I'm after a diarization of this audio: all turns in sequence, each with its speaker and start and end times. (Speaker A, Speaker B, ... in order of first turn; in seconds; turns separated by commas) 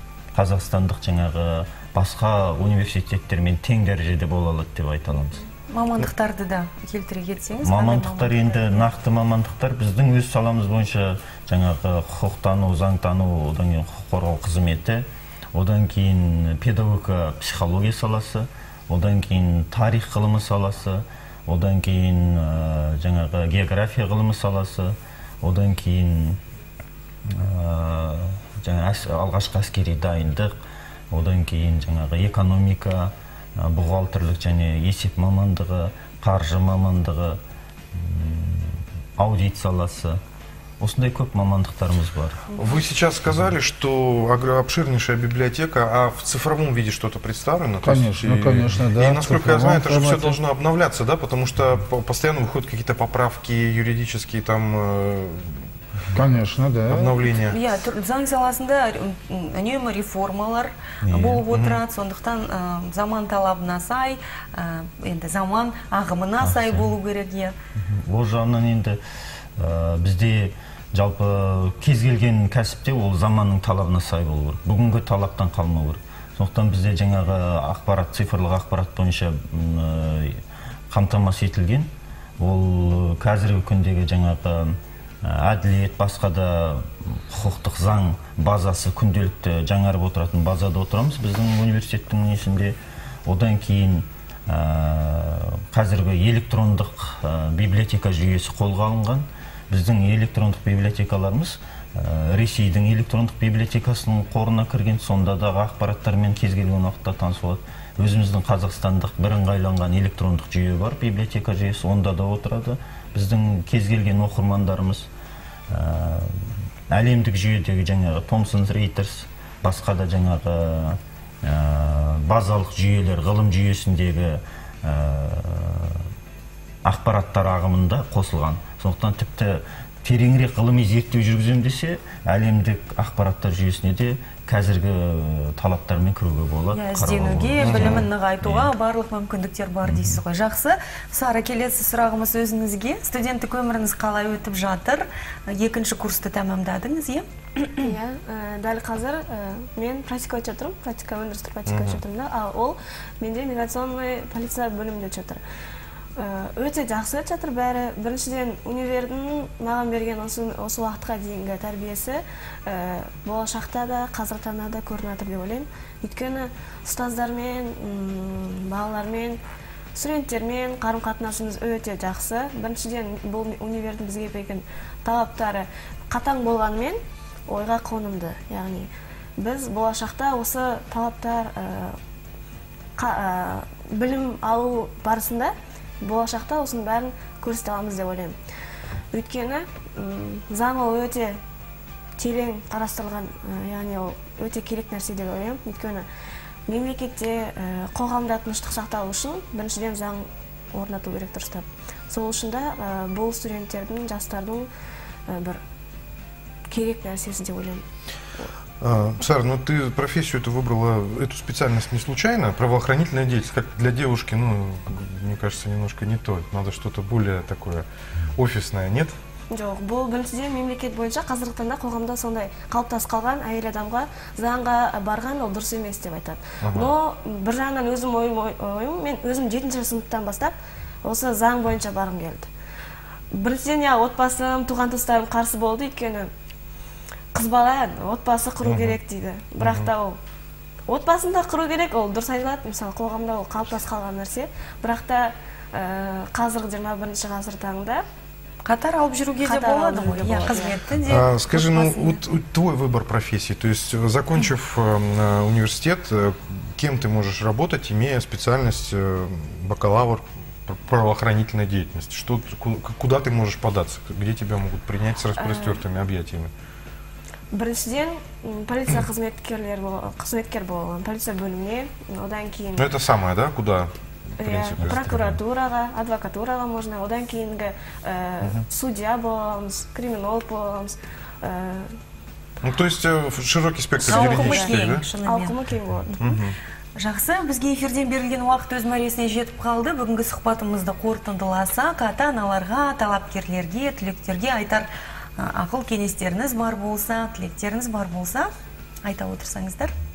Speaker A: 0.3-5.4, Speaker B: 5.7-8.9, Speaker A: 7.6-26.4, Speaker A: 27.3-30.5, Speaker A: 31.1-37.4, Speaker A: 37.9-40.2, Speaker A: 40.8-42.4, Speaker C: 42.5-55.6, Speaker D: 47.8-50.4, Speaker D: 56.1-57.1, Speaker C: 56.9-57.6, Speaker B: 57.5-67.5, Speaker A: 61.1-61.4, Speaker C: 61.5-61.8, Speaker A: 66.4-66.9, Speaker A: 67.8-69.0, Speaker A: 69.6-115.1, Speaker A: 115.7-126.0, Speaker A: 126.8-138.7, Speaker B: 136.7-147.2, Speaker C: 137.6-138.1, Speaker A: 139.8-140.2, Speaker E: 147.8-155.4, Speaker C: 151.7-152.0, Speaker E: 156.2-169.4, Speaker E: 169.9-182.0, Speaker E: 183.0-188.3, Speaker E: 189.1-191.3, Speaker E: 192.2-196.1, Speaker E: 196.7-204.7, Speaker E: 205.3-205.6, Speaker E: 206.7-207.8, Speaker C: 208.8-219.1, Speaker E: 219.5-232.5, Speaker C: 226.6-226.9, Speaker E: 233.3-236.3, Speaker E: 237.3-240.2, Speaker C: 238.6-239.0, Speaker C: 239.6-239.9, Speaker E: 240.9-248.0, Speaker B: 248.6-252.2, Speaker E: 249.4-250.8, Speaker C: 251.0-266.5, Speaker E: 265.4-265.8, Speaker E: 267.5-272.9, Speaker C: 272.8-275.4, Speaker E: 274.4-281.9, Speaker C: 282.6-285.0, Speaker B: 284.0-285.6, Speaker E: 284.0-286.4, Speaker C: 286.2-286.6, Speaker B: 287.0-298.5, Speaker B: 299.0-299.9